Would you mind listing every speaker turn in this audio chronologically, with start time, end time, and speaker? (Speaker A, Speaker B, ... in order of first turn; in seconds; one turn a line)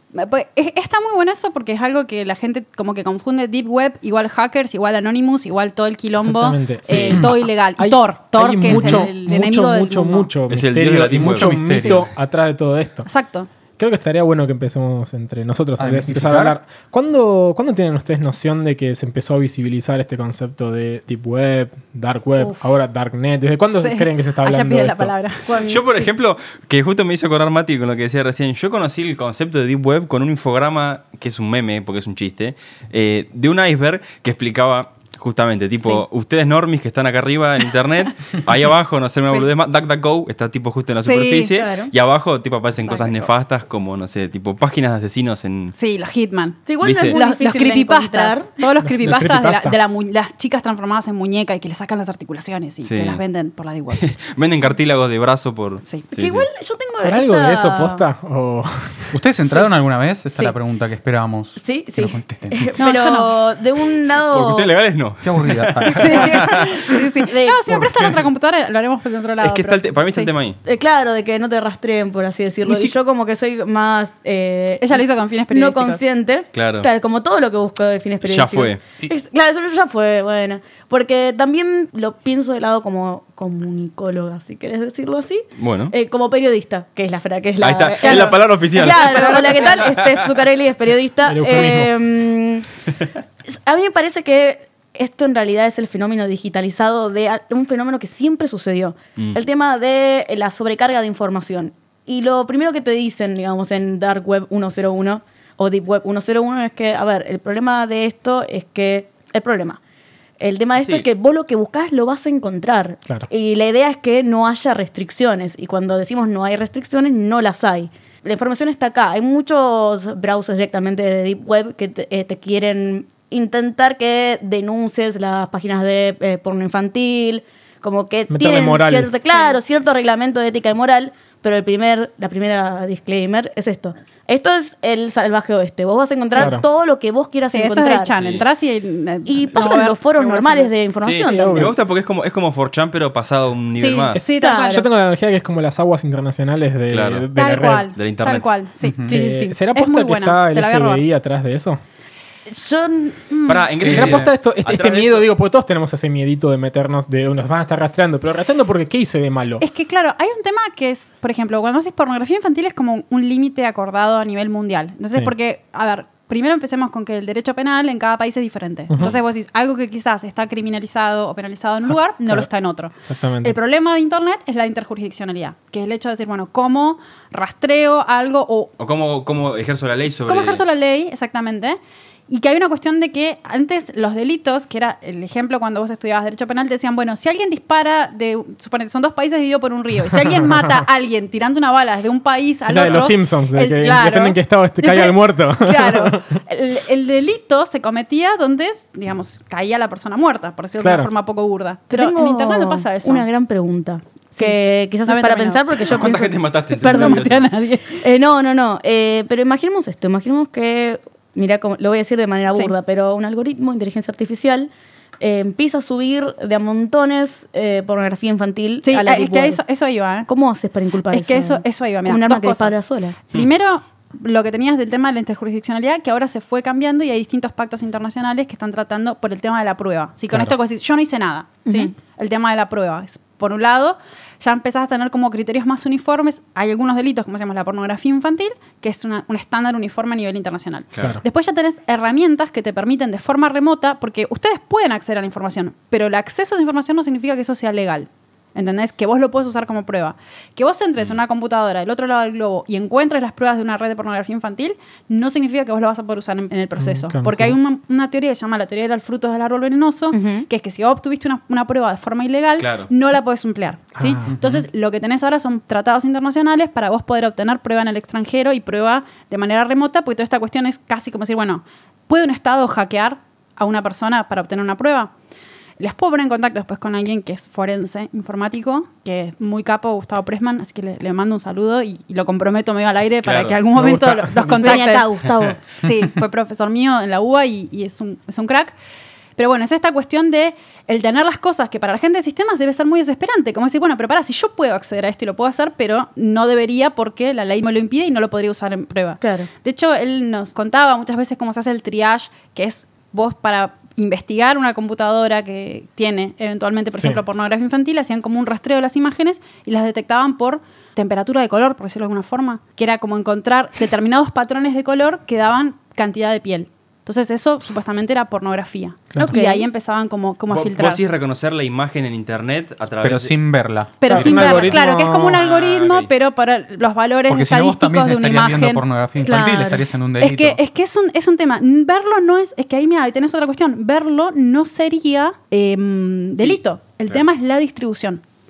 Speaker A: 0.1-10.3
Speaker B: 6.2-13.1
Speaker C: 10.5-11.6
Speaker D: 11.2-12.1
Speaker A: 13.1-13.5
Speaker B: 13.8-25.2
Speaker D: 15.8-16.6
Speaker A: 23.8-25.5
Speaker E: 25.5-26.0
Speaker C: 25.6-45.7
Speaker A: 41.0-41.5
Speaker E: 41.5-41.9
Speaker A: 42.9-43.3
Speaker A: 45.7-54.1
Speaker E: 46.7-48.5
Speaker C: 46.8-47.2
Speaker B: 48.8-49.8
Speaker C: 52.8-53.2
Speaker C: 53.9-56.5
Speaker A: 55.8-56.1
Speaker E: 56.2-58.1
Speaker B: 57.0-59.1
Speaker D: 59.1-62.8
Speaker E: 60.3-60.6
Speaker E: 61.6-64.7
Speaker A: 62.8-63.3
Speaker C: 64.3-66.9
Speaker D: 65.2-66.4
Speaker A: 65.9-70.3
Speaker E: 67.2-67.6
Speaker D: 67.7-68.3
Speaker C: 69.4-70.6
Speaker E: 70.7-92.7
Speaker C: 72.7-72.9
Speaker A: 74.8-76.0
Speaker C: 76.5-76.9
Speaker C: 78.2-78.8
Speaker C: 85.6-85.9
Speaker C: 87.6-90.3
Speaker A: 88.0-88.4
Speaker B: 91.3-91.9
Speaker E: 93.5-109.8
Speaker E: 110.4-138.2
Speaker C: 110.8-111.1
Speaker B: 128.3-129.2
Speaker B: 136.3-136.6
Speaker A: 137.5-140.8
Speaker C: 138.2-138.4
Speaker E: 139.3-141.7
Speaker C: 141.0-144.2
Speaker B: 141.2-141.7
Speaker A: 143.7-144.9
Speaker B: 144.1-147.9
Speaker E: 144.4-144.8
Speaker C: 146.9-147.2
Speaker A: 147.3-151.1
Speaker C: 148.0-148.5
Speaker D: 148.8-149.2
Speaker B: 149.1-151.8
Speaker E: 149.1-149.6
Speaker E: 152.5-153.2
Speaker A: 153.3-153.7
Speaker C: 153.5-155.3
Speaker B: 153.8-159.7
Speaker A: 159.6-178.7
Speaker B: 168.9-169.2
Speaker B: 173.0-173.6
Speaker C: 178.8-180.6
Speaker A: 180.3-181.8
Speaker A: 182.3-203.3
Speaker B: 190.3-190.7
Speaker B: 192.7-196.4
Speaker B: 200.8-201.1
Speaker E: 201.9-207.3
Speaker A: 204.3-206.1
Speaker C: 205.9-207.5
Speaker A: 206.8-208.0
Speaker E: 207.9-219.6
Speaker A: 218.8-220.3
Speaker E: 220.3-223.2
Speaker A: 221.1-275.1
Speaker E: 231.7-231.9
Speaker C: 240.9-241.2
Speaker B: 256.8-257.6
Speaker E: 260.1-260.5
Speaker C: 262.6-262.9
Speaker B: 264.0-264.4
Speaker D: 264.3-264.6
Speaker A: 275.8-285.1
Speaker C: 283.2-283.6
Speaker B: 283.7-284.8
Speaker E: 284.6-285.6
Speaker A: 285.7-288.7
Speaker A: 289.4-321.0
Speaker E: 299.2-299.5
Speaker E: 319.2-319.7
Speaker C: 320.5-323.4
Speaker D: 323.0-324.7
Speaker A: 324.0-328.8
Speaker B: 324.1-325.4
Speaker C: 325.4-326.1
Speaker D: 327.3-330.6
Speaker E: 329.2-329.9
Speaker A: 330.2-338.2
Speaker C: 336.4-337.2